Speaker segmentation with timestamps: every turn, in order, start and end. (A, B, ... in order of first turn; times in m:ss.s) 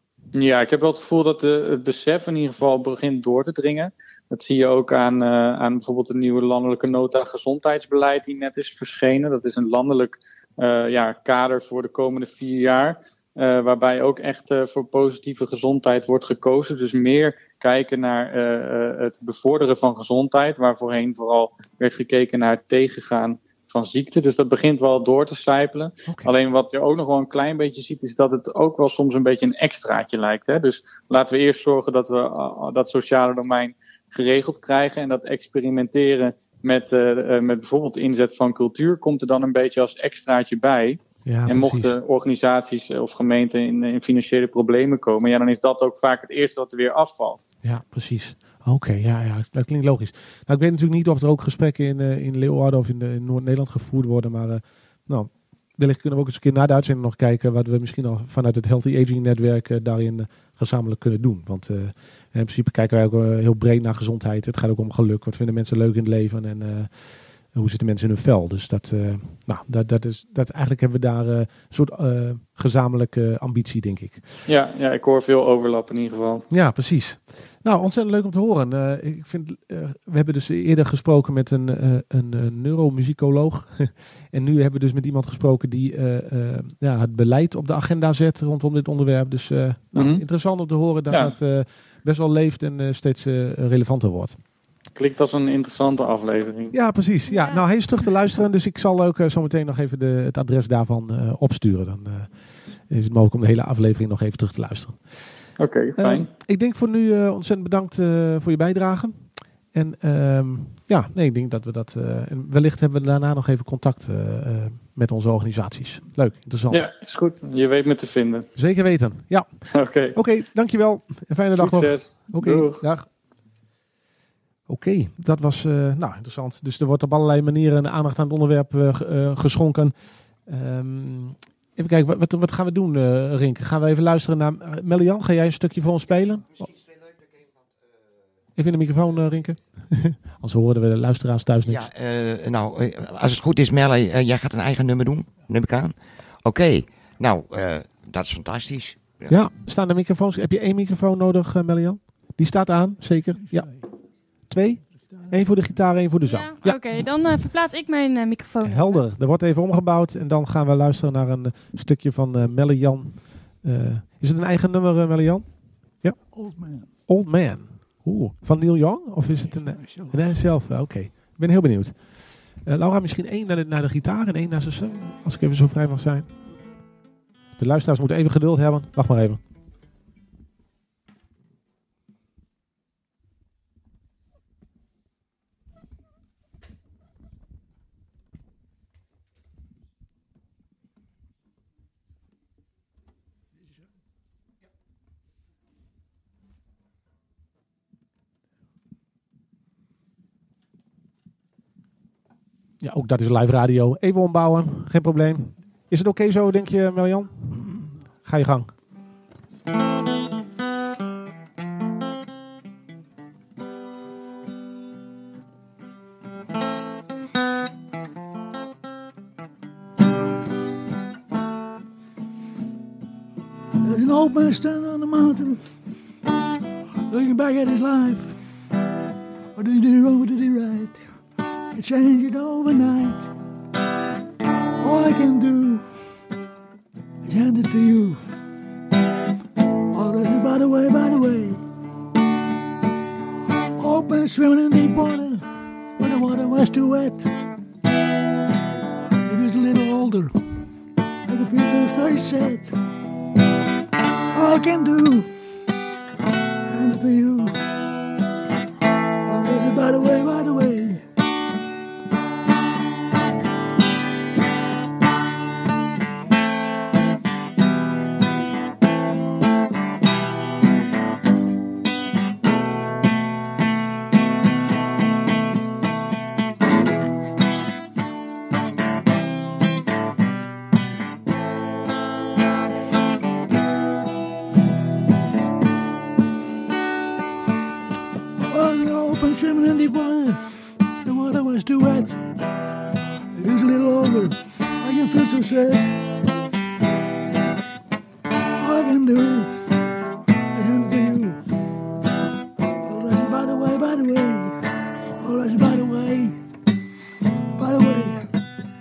0:00.3-0:47.5 A
0:26.1-0:26.3 B
0:41.2-0:41.9 B
0:47.6-1:14.2 B
1:14.5-1:16.5 A
1:16.5-1:34.4 B
1:29.9-1:30.2 A
1:31.1-1:31.4 A
1:35.0-1:36.7 A
1:36.7-1:45.4 B
1:37.3-1:37.6 C
1:45.6-1:46.3 A
1:46.0-1:56.8 B
1:56.7-1:58.5 A
1:58.6-2:03.1 B
1:59.7-2:00.2 A
2:01.5-2:02.9 A
2:04.7-2:16.7 B
2:18.6-2:21.9 B
2:21.7-2:29.4 D
2:29.3-2:33.7 B
2:33.5-2:33.8 E
2:34.4-2:37.0 B
2:36.2-2:39.0 C
2:38.6-2:56.3 B
2:46.3-2:46.9 E
2:49.6-2:50.4 E
2:57.6-2:59.4 B
3:22.8-3:28.7 B
3:43.8-3:45.6 E
3:47.1-3:48.4 E
3:49.6-3:51.1 E
3:51.7-3:53.3 E
3:54.8-3:55.9 E
3:57.2-3:58.2 E
3:59.9-4:01.6 E
4:03.8-4:05.4 E
4:06.0-4:07.3 E
4:09.2-4:10.3 E
4:11.3-4:12.8 E
4:14.3-4:15.3 E
4:16.7-4:17.6 E
4:19.2-4:21.0 E
4:48.5-4:50.5 E
4:51.0-4:52.2 E
4:53.4-4:55.9 E
4:58.6-4:59.6 E
5:00.5-5:01.4 E
5:02.8-5:04.6 E
5:05.2-5:06.4 E
5:07.6-5:08.3 E